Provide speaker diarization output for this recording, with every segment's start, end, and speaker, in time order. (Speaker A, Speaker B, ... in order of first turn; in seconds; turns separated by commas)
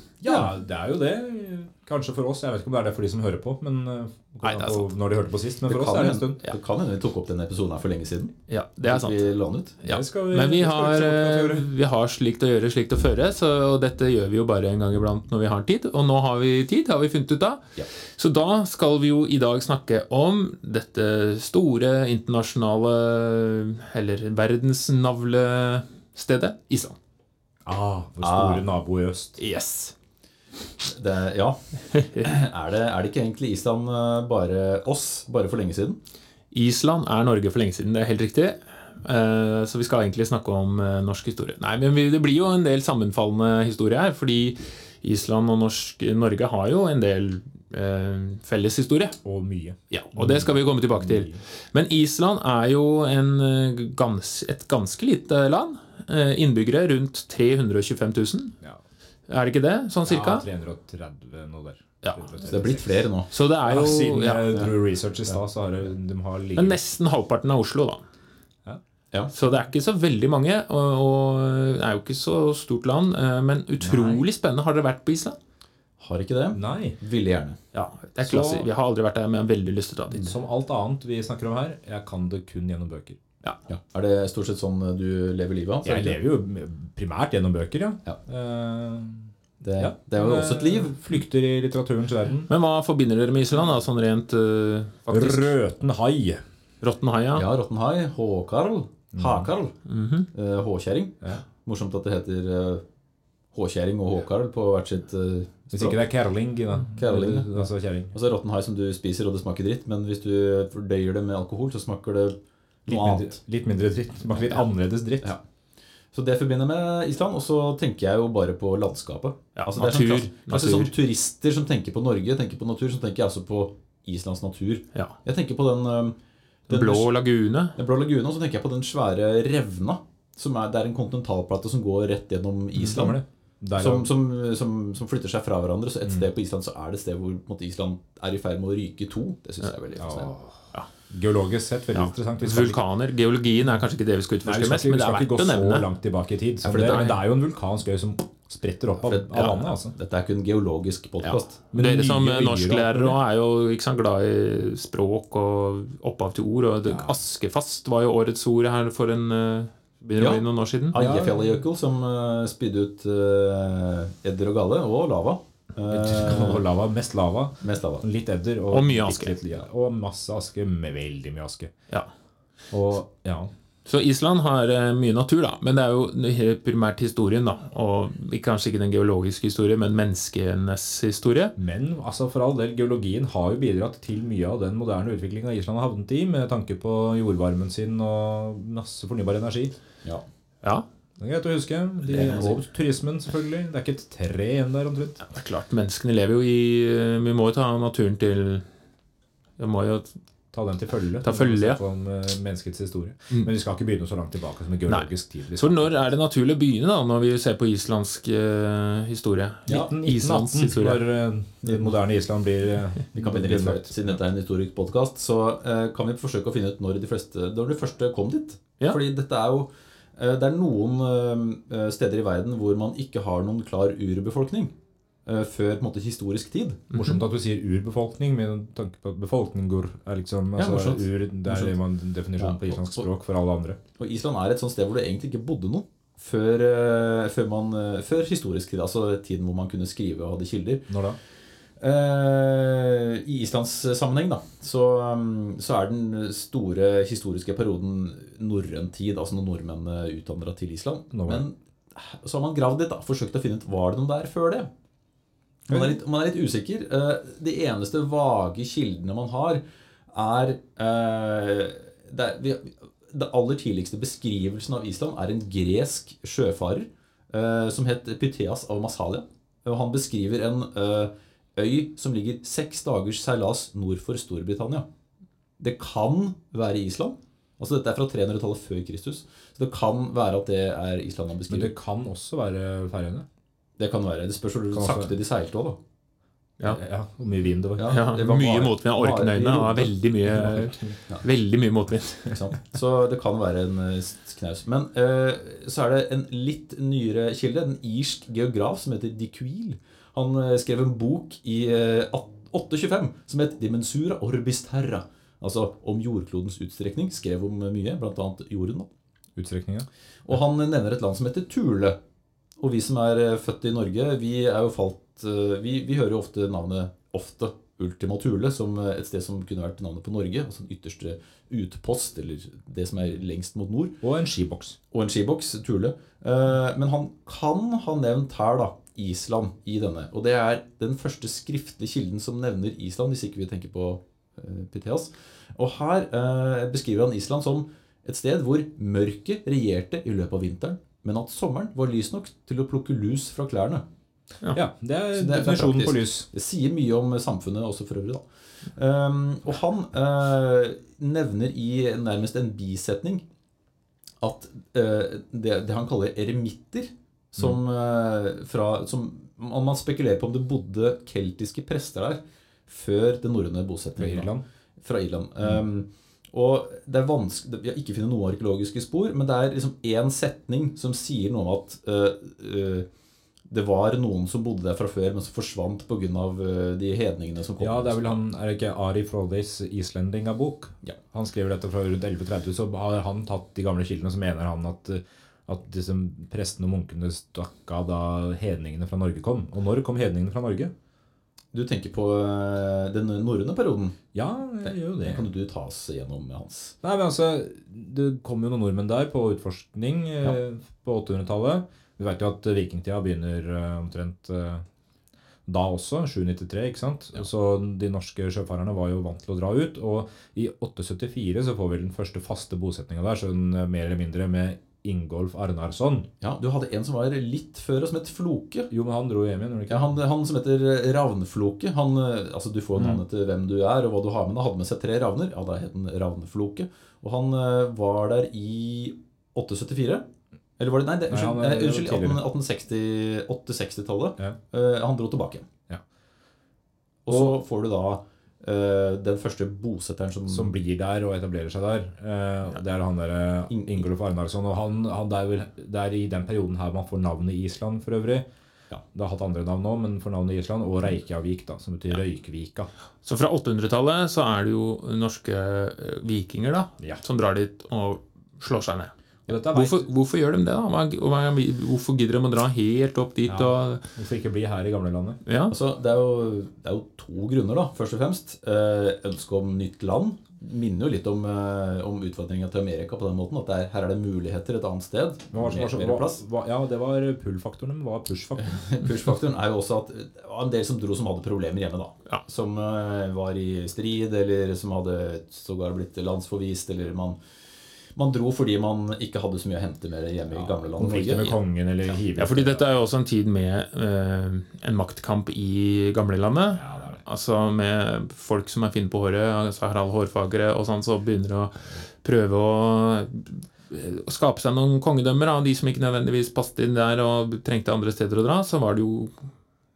Speaker A: 0.2-6.4, Speaker B: 4.4-4.9, Speaker C: 5.7-10.0, Speaker B: 8.5-9.3, Speaker A: 9.9-11.7, Speaker B: 9.9-27.0, Speaker A: 27.7-29.4, Speaker C: 28.2-28.7, Speaker B: 29.4-29.9, Speaker C: 30.8-36.0, Speaker B: 31.9-32.2, Speaker B: 36.5-49.2, Speaker A: 49.2-51.4, Speaker B: 49.9-58.5, Speaker B: 59.3-60.5, Speaker A: 60.0-63.1, Speaker C: 62.5-63.3, Speaker B: 63.3-64.6, Speaker A: 63.7-66.8, Speaker B: 66.6-68.0, Speaker B: 69.3-75.4, Speaker A: 73.8-74.2, Speaker C: 76.0-77.6, Speaker A: 76.5-77.0, Speaker B: 77.7-80.3, Speaker A: 78.2-78.7, Speaker A: 80.1-83.2, Speaker C: 83.7-86.2, Speaker A: 85.8-92.5, Speaker C: 89.6-90.9, Speaker B: 92.5-95.5, Speaker A: 95.1-96.4, Speaker B: 96.8-97.5, Speaker C: 97.3-99.8, Speaker A: 99.1-99.5, Speaker B: 99.9-100.3, Speaker C: 100.3-102.8, Speaker C: 103.5-106.0, Speaker A: 105.7-108.2, Speaker C: 107.0-113.4, Speaker A: 112.9-115.3, Speaker C: 116.1-126.2, Speaker B: 119.6-120.9, Speaker C: 126.7-127.1, Speaker B: 126.7-127.8, Speaker C: 127.8-133.2, Speaker A: 132.8-134.1, Speaker C: 133.8-140.3, Speaker A: 140.0-142.8, Speaker B: 142.0-145.9, Speaker A: 144.4-149.9, Speaker C: 146.6-147.1, Speaker B: 146.7-147.2, Speaker C: 149.0-151.6, Speaker B: 151.3-161.1, Speaker A: 151.7-153.2, Speaker A: 156.9-157.2, Speaker C: 160.2-166.6, Speaker A: 165.9-171.7, Speaker C: 167.6-168.1, Speaker B: 168.7-169.4, Speaker A: 172.7-173.5, Speaker B: 173.9-181.6, Speaker A: 181.6-189.8, Speaker A: 191.2-195.2, Speaker C: 192.1-192.6, Speaker B: 195.2-198.7, Speaker B: 199.6-200.2, Speaker A: 200.5-205.9, Speaker B: 201.2-201.8, Speaker B: 204.9-211.1, Speaker A: 209.7-214.2, Speaker C: 213.2-226.9, Speaker A: 226.9-233.8, Speaker C: 230.6-231.8, Speaker C: 232.4-233.1, Speaker C: 234.0-240.9, Speaker A: 240.9-241.2, Speaker C: 241.8-254.7, Speaker A: 251.1-251.4, Speaker C: 255.7-274.9, Speaker A: 255.7-256.0, Speaker C: 275.6-281.7, Speaker A: 281.5-283.3, Speaker C: 283.8-285.8, Speaker A: 284.7-285.1, Speaker A: 286.6-288.0, Speaker C: 287.8-289.9, Speaker B: 287.8-292.3, Speaker A: 290.3-291.0, Speaker C: 292.3-308.9, Speaker A: 309.4-309.9, Speaker C: 310.3-312.0, Speaker C: 312.6-324.0, Speaker A: 324.0-324.8, Speaker C: 324.9-343.9, Speaker A: 344.5-346.3, Speaker C: 345.2-353.2, Speaker C: 354.2-372.9, Speaker A: 364.0-364.4, Speaker C: 373.5-378.2, Speaker A: 377.6-390.7, Speaker C: 391.5-394.0, Speaker A: 394.1-395.3, Speaker C: 394.6-396.8, Speaker A: 396.8-404.7, Speaker A: 405.5-416.1, Speaker C: 416.2-418.7, Speaker A: 418.7-419.9, Speaker C: 419.7-435.5, Speaker A: 422.8-423.0, Speaker A: 431.1-432.2, Speaker C: 437.1-440.5, Speaker A: 437.1-437.4, Speaker A: 440.3-448.3, Speaker C: 443.5-443.9, Speaker A: 448.9-452.7, Speaker B: 453.0-458.9, Speaker A: 459.3-459.9, Speaker B: 459.5-463.9, Speaker A: 463.3-465.2, Speaker B: 465.3-465.6, Speaker C: 465.5-476.2, Speaker A: 475.3-478.7, Speaker C: 478.4-487.2, Speaker C: 487.9-491.4, Speaker A: 490.3-492.6, Speaker B: 492.1-509.2, Speaker A: 496.6-497.0